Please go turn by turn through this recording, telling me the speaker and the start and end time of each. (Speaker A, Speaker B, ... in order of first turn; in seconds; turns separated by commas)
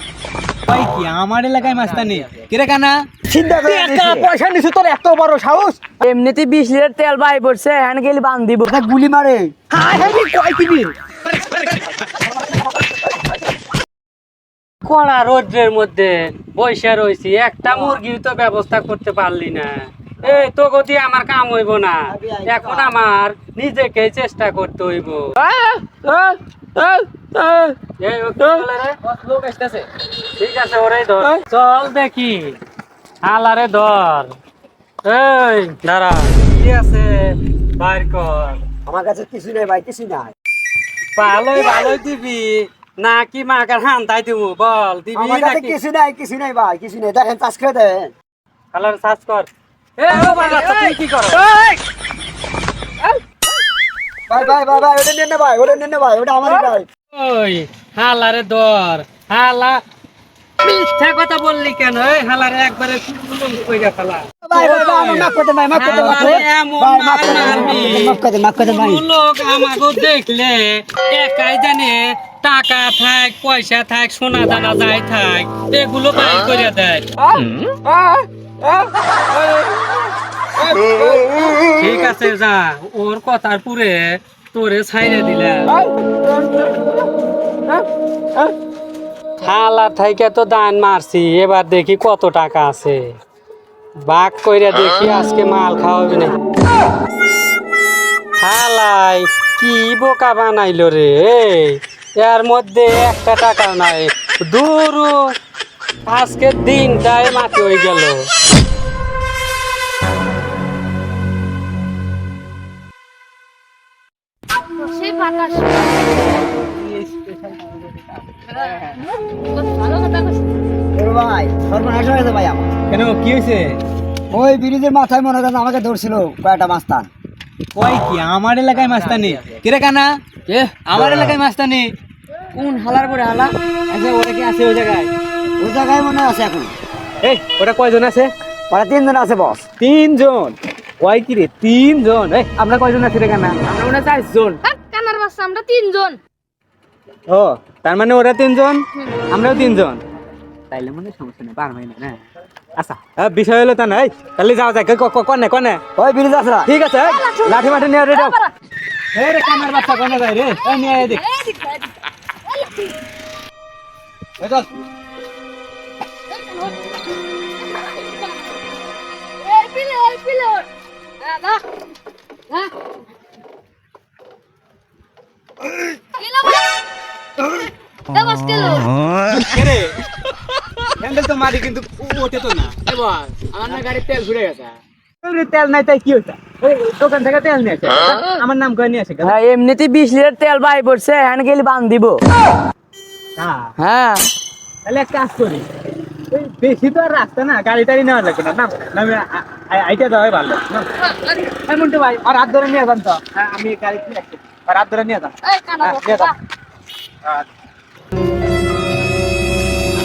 Speaker A: 0.7-2.9, Speaker B: 3.3-4.3, Speaker A: 3.6-5.8, Speaker C: 6.0-8.7, Speaker B: 8.6-9.5, Speaker A: 9.7-10.9, Speaker D: 14.8-25.4, Speaker B: 22.1-22.9, Speaker C: 25.5-26.3, Speaker C: 26.8-27.7, Speaker D: 28.0-29.0, Speaker A: 29.1-29.8, Speaker D: 30.4-32.6, Speaker D: 33.2-34.3, Speaker D: 35.0-38.6, Speaker B: 38.9-40.3, Speaker D: 41.1-45.7, Speaker B: 45.1-48.1, Speaker D: 48.7-49.5, Speaker A: 50.0-51.0, Speaker D: 50.0-51.4, Speaker B: 54.3-56.9, Speaker D: 57.1-59.8, Speaker D: 60.6-77.1, Speaker B: 64.4-69.0, Speaker A: 64.6-64.9, Speaker A: 65.8-66.3, Speaker D: 81.5-85.7, Speaker D: 89.4-93.2, Speaker D: 94.0-96.3, Speaker D: 98.4-105.3, Speaker D: 106.0-108.3, Speaker E: 114.8-116.3, Speaker A: 116.6-118.9, Speaker E: 119.5-120.4, Speaker B: 121.0-122.7, Speaker A: 122.9-123.8, Speaker B: 124.3-127.1, Speaker A: 127.7-131.9, Speaker C: 132.5-133.5, Speaker A: 133.9-135.1, Speaker B: 135.6-136.7, Speaker A: 137.2-138.3, Speaker B: 138.7-139.7, Speaker A: 139.8-144.6, Speaker E: 144.7-146.2, Speaker A: 147.3-150.0, Speaker A: 150.7-152.2, Speaker A: 152.8-155.8, Speaker B: 155.9-156.7, Speaker A: 156.7-158.4, Speaker E: 157.0-158.5, Speaker A: 159.1-161.2, Speaker E: 160.8-161.9, Speaker E: 162.5-162.9, Speaker A: 164.4-164.7, Speaker E: 166.3-166.7, Speaker E: 167.8-168.2, Speaker E: 169.4-170.7, Speaker E: 171.2-171.6, Speaker E: 176.2-176.7, Speaker E: 178.1-178.9, Speaker A: 179.3-179.9, Speaker A: 181.0-189.4, Speaker C: 189.2-192.2, Speaker A: 193.4-193.7, Speaker C: 193.8-194.3, Speaker A: 194.8-195.6, Speaker A: 196.3-200.9, Speaker A: 201.4-206.3, Speaker E: 205.4-206.3